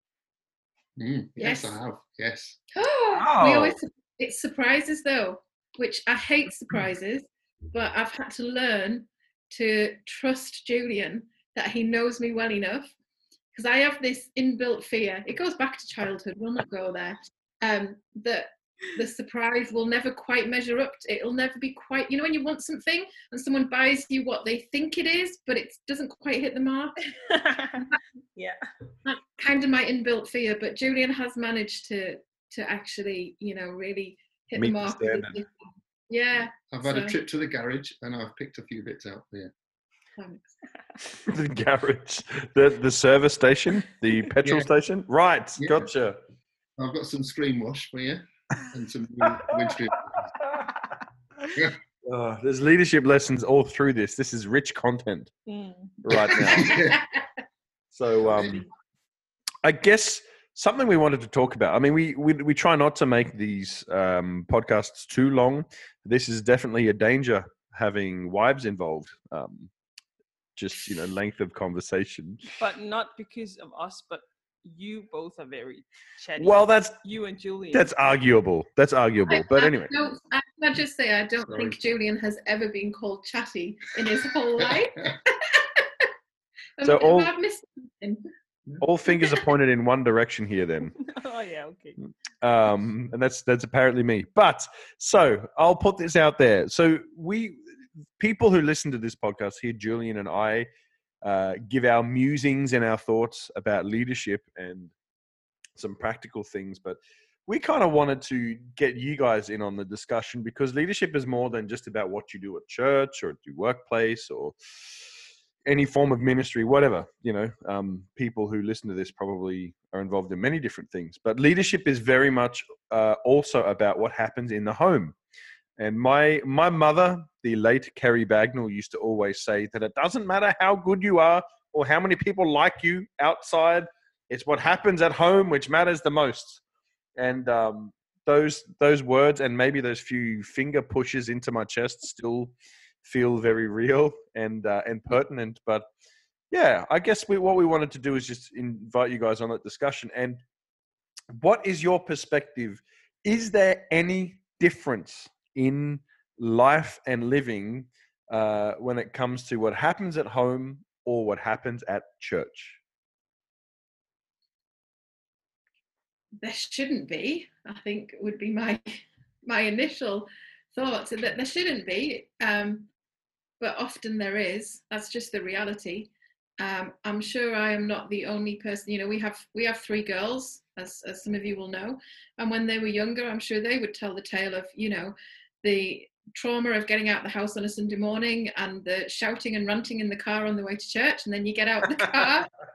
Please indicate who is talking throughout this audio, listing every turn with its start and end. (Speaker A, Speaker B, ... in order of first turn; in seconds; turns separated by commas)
Speaker A: 1.0-2.6, Speaker B: 1.4-1.8, Speaker B: 2.7-12.9, Speaker C: 3.1-3.8, Speaker B: 13.5-27.1, Speaker D: 27.1-28.6, Speaker B: 29.1-37.2, Speaker C: 34.6-35.4, Speaker A: 36.7-39.5, Speaker B: 40.2-40.6, Speaker C: 41.2-46.2, Speaker A: 45.6-45.9, Speaker A: 46.8-50.2, Speaker C: 52.0-55.3, Speaker D: 55.5-55.9, Speaker C: 56.0-56.8, Speaker A: 56.4-57.0, Speaker C: 57.9-58.7, Speaker A: 58.3-58.6, Speaker C: 59.6-69.7, Speaker C: 70.6-72.4, Speaker D: 72.6-77.9, Speaker C: 76.4-76.9, Speaker C: 77.7-79.9, Speaker B: 79.3-86.0, Speaker A: 81.5-81.8, Speaker B: 86.8-88.2, Speaker C: 86.8-87.3, Speaker C: 88.8-91.0, Speaker D: 91.0-92.0, Speaker C: 92.4-97.6, Speaker C: 98.2-100.7, Speaker C: 101.2-104.9, Speaker C: 105.8-114.6, Speaker C: 115.6-125.2, Speaker C: 125.8-136.6, Speaker C: 137.2-142.5, Speaker C: 143.0-145.9, Speaker C: 146.5-150.4, Speaker C: 151.3-162.8, Speaker B: 166.4-172.9, Speaker B: 173.6-192.5